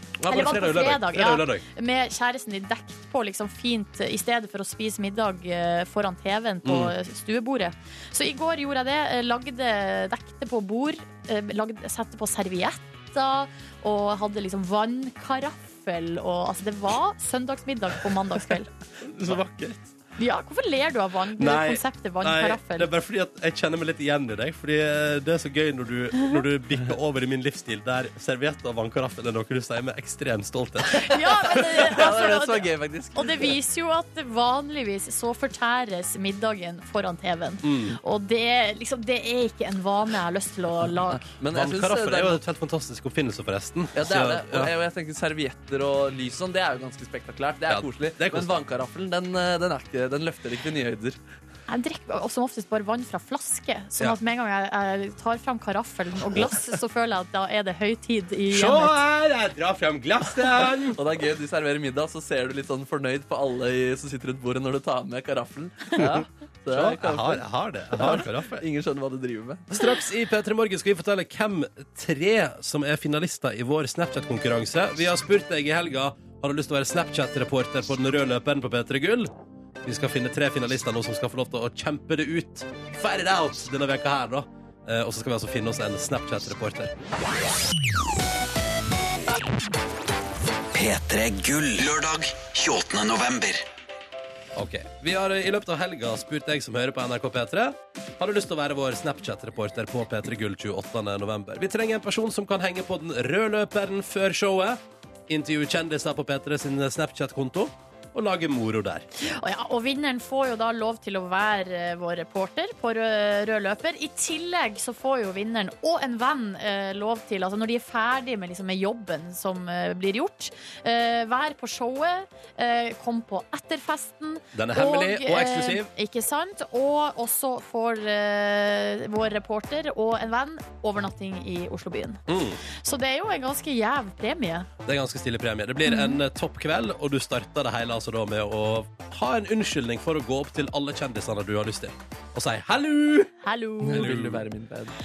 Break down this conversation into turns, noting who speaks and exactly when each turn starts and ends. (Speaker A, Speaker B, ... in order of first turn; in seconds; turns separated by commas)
Speaker A: 0.2-1.6, Speaker B: 0.3-18.7, Speaker A: 6.6-6.9, Speaker A: 19.0-19.9, Speaker B: 20.2-22.9, Speaker A: 21.4-31.1, Speaker B: 30.9-41.3, Speaker C: 31.5-33.5, Speaker A: 37.6-38.0, Speaker C: 41.1-42.4, Speaker A: 41.5-44.7, Speaker C: 43.9-51.2, Speaker A: 47.7-48.6, Speaker B: 51.7-59.0, Speaker A: 58.5-61.0, Speaker C: 60.9-69.8, Speaker A: 66.0-68.6, Speaker A: 69.7-79.3, Speaker A: 79.8-86.9, Speaker D: 90.7-93.6, Speaker A: 94.5-109.1, Speaker B: 109.2-134.7, Speaker A: 124.5-125.9, Speaker A: 132.3-132.6, Speaker A: 134.8-143.3, Speaker B: 135.8-136.2, Speaker B: 143.4-144.1, Speaker C: 143.8-144.9, Speaker A: 143.8-144.4